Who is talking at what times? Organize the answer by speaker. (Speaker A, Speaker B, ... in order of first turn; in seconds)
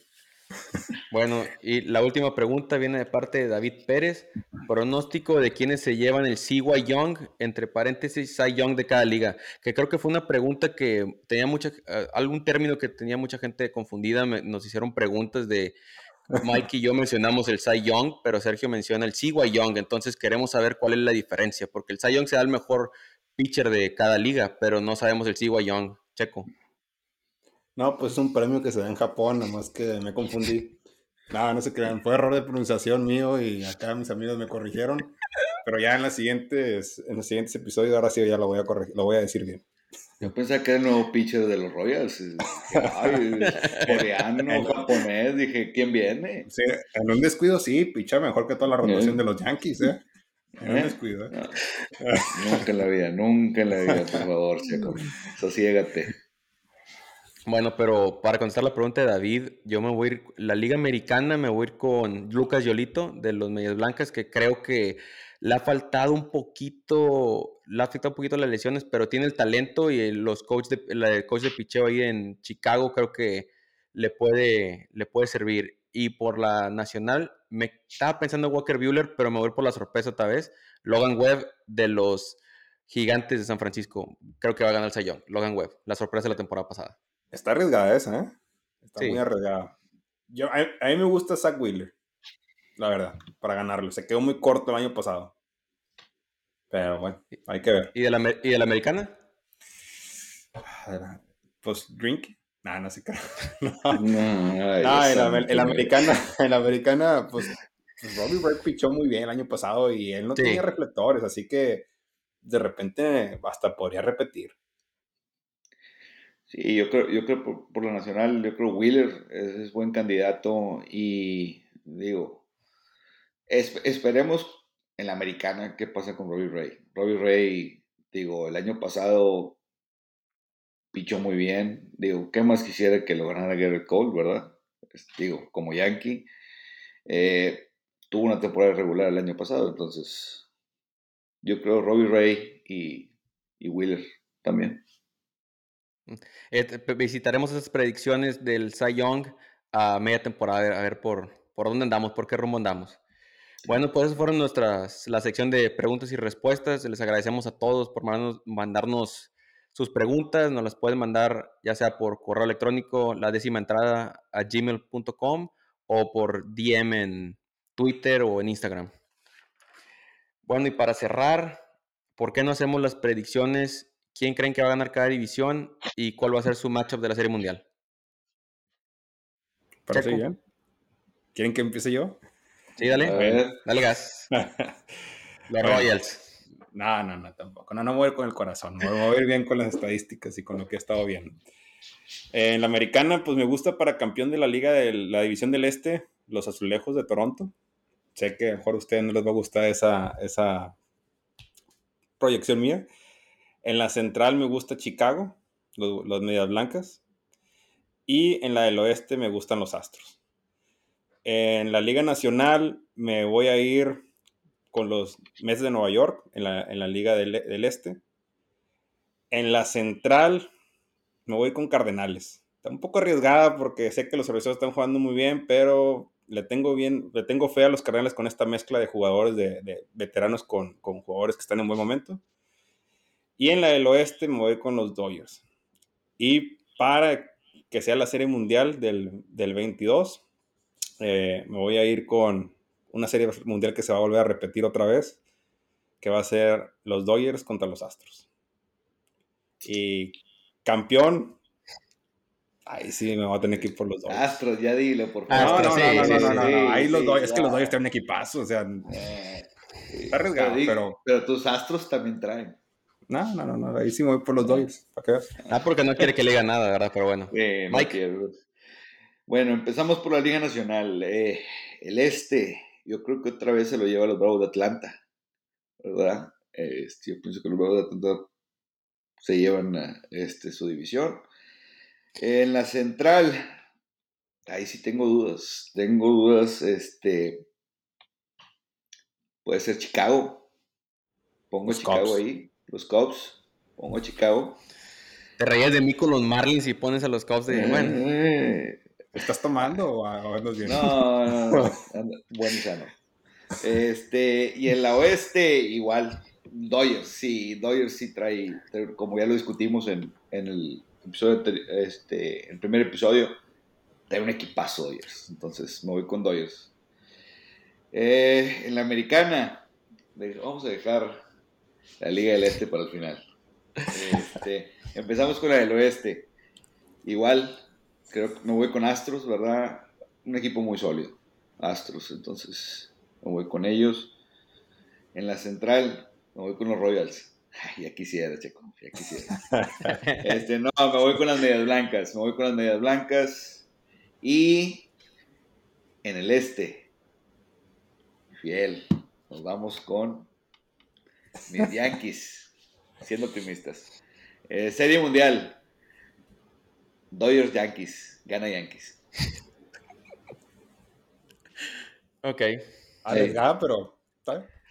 Speaker A: 1.1-15.8, 16.3-26.5, 43.5-43.9, 57.5-87.0, 97.9-99.1, 110.4-110.6, 146.1-153.0, 153.7-168.9, 170.5-171.6, 172.2-177.6, 179.9-180.2, 182.8-184.3, 185.5-186.3, 255.3-256.5, 265.5-268.0, 295.4-298.1, 339.8-340.4, 362.2-362.5, 363.1-363.4
Speaker B: 27.8-30.8, 31.3-39.6, 42.8-43.2, 43.8-45.0, 46.5-50.0, 50.6-51.4, 52.0-52.6, 87.3-89.7, 90.3-91.9, 92.8-95.3, 96.7-97.9, 100.7-104.0, 104.8-111.9, 112.4-114.5, 179.8-180.4, 181.3-182.2, 183.1-183.5, 184.3-184.8, 185.6-185.9, 186.7-191.4, 192.3-197.5, 198.1-200.8, 202.2-202.9, 203.6-207.0, 208.1-210.2, 211.2-214.0, 214.7-218.0, 219.3-220.5, 221.2-232.2, 233.4-235.4, 236.2-240.2, 241.0-245.2, 246.0-248.2, 249.6-251.4, 252.7-254.4, 255.3-258.9, 260.1-261.0, 263.1-265.4, 291.6-292.2, 299.1-301.7, 339.5-339.9, 363.0-364.5
Speaker C: 40.2-46.5, 48.8-49.2, 50.6-51.6, 52.3-56.1, 103.9-105.9, 116.5-122.4, 123.5-129.6, 130.9-136.3, 137.1-140.4, 141.4-144.8, 182.8-183.6, 254.1-257.8, 258.9-262.6, 264.4-264.7, 265.4-266.0, 267.3-268.3, 269.3-275.0, 275.8-278.3, 279.2-281.2, 282.2-283.4, 284.5-287.5, 289.4-290.5, 291.5-294.6, 297.5-298.8, 300.6-302.9, 303.6-313.4, 314.1-316.7, 317.9-321.2, 322.0-323.2, 323.9-326.3, 327.0-334.1, 335.1-339.4, 340.2-343.6, 344.2-344.9, 346.0-346.9, 348.4-350.3, 351.5-353.9, 354.5-355.6, 357.1-359.0, 363.1-363.4